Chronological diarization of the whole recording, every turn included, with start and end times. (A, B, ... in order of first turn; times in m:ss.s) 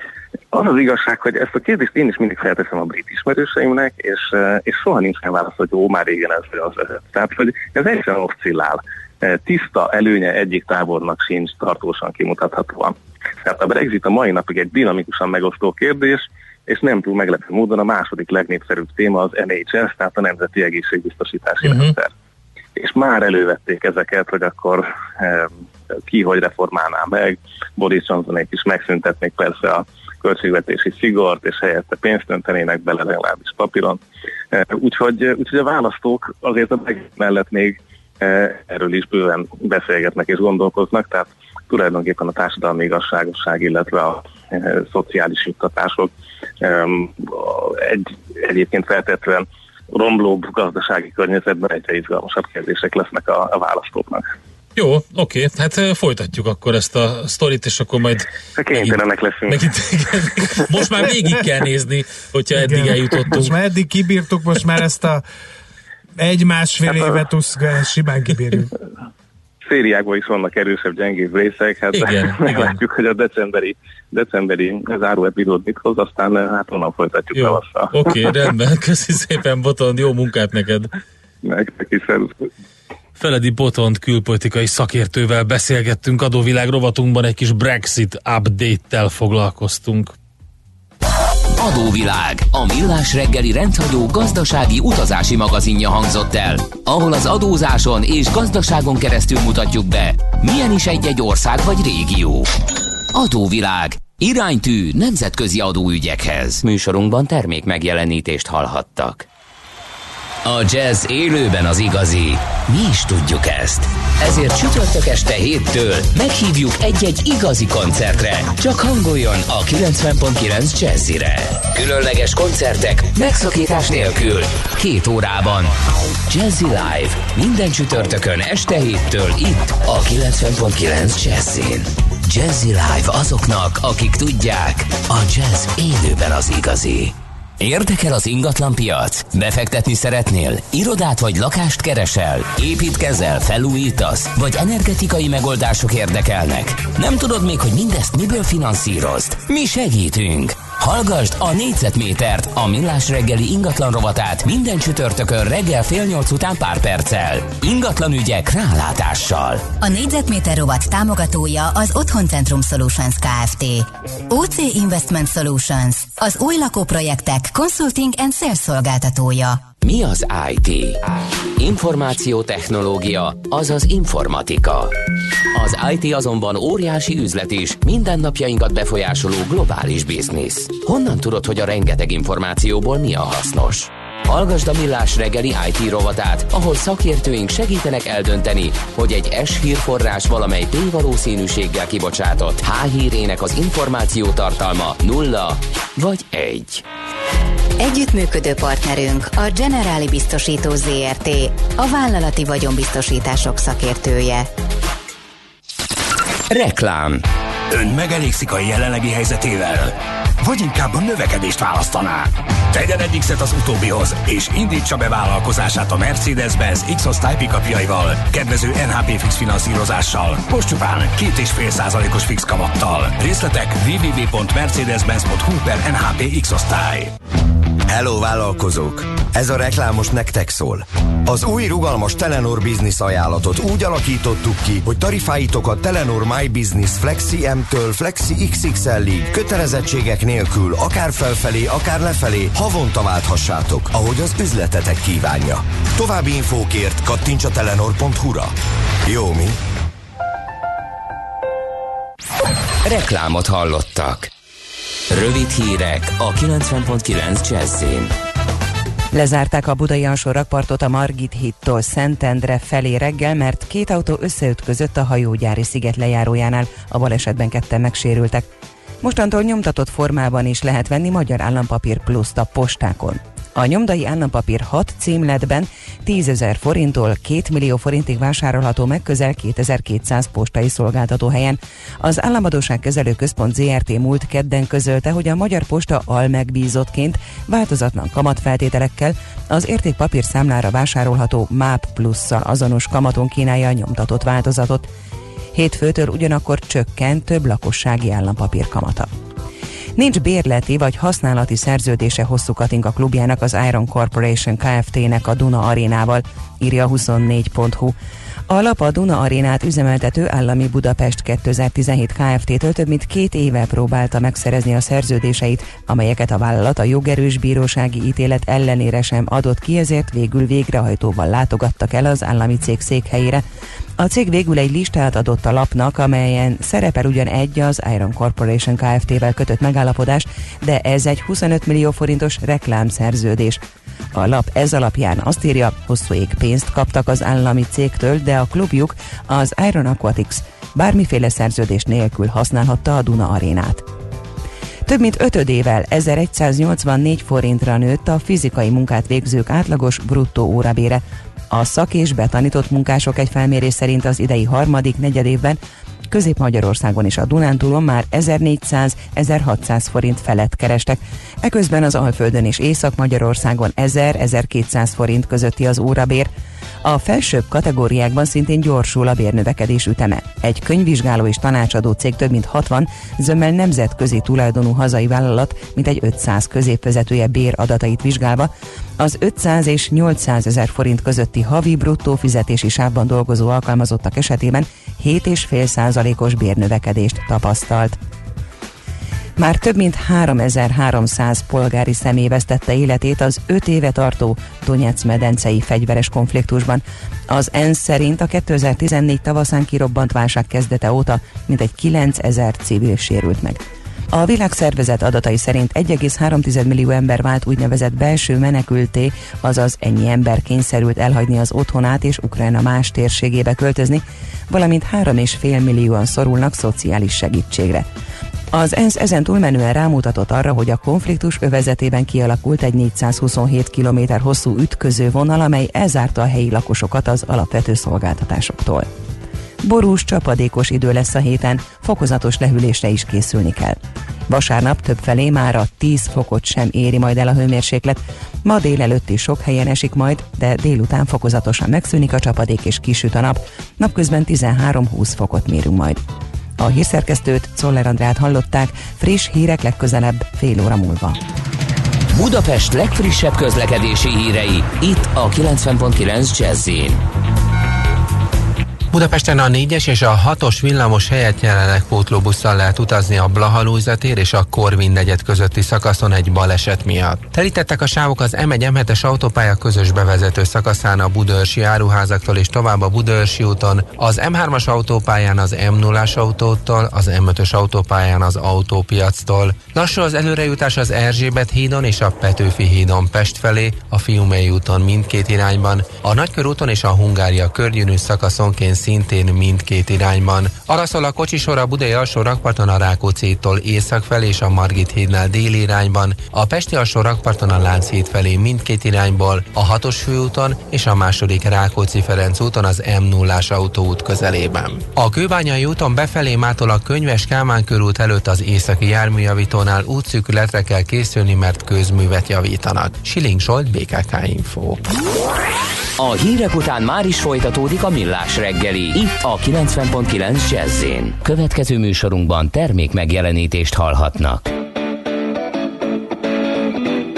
0:00.5-0:22.1 A
0:21.6-0:21.9 B
0:22.8-0:25.6 A
0:26.1-0:34.0 A
0:34.5-0:54.3 A
0:54.8-1:03.5 B
0:58.6-0:59.7 A
1:02.5-1:05.2 C
1:06.2-1:08.7 C
1:09.6-1:18.3 A
1:11.9-1:12.8 B
1:17.4-1:20.9 B
1:21.4-1:22.5 A
1:23.2-1:30.2 B
1:31.6-1:42.5 D
1:43.1-1:49.3 D
1:50.4-2:05.7 D
2:06.3-2:39.7 D
2:39.8-2:49.6 E
2:49.8-2:51.0 D
2:51.6-2:55.0 D
2:55.5-3:16.8 D
3:17.8-3:24.5 E
3:26.5-3:27.2 D
3:27.7-3:47.1 F
3:47.9-4:08.5 G
4:09.1-4:09.6 G
4:12.8-4:14.3 D
4:15.1-4:18.1 D
4:19.1-4:28.4 H
4:29.0-4:54.9 H
4:55.5-4:59.1 H
5:00.0-5:08.0 H
5:08.5-5:23.4 H
5:24.0-5:33.6 H
5:34.1-5:43.9 H
5:44.9-5:55.6 H
5:56.1-6:06.3 H
6:06.8-6:28.0 H
6:29.4-6:57.9 H
6:58.5-7:08.9 H
7:09.6-7:13.8 H
7:14.3-7:26.0 H
7:26.6-7:31.2 H
7:32.1-7:37.0 D
7:38.9-8:34.9 I
8:36.0-8:44.5 D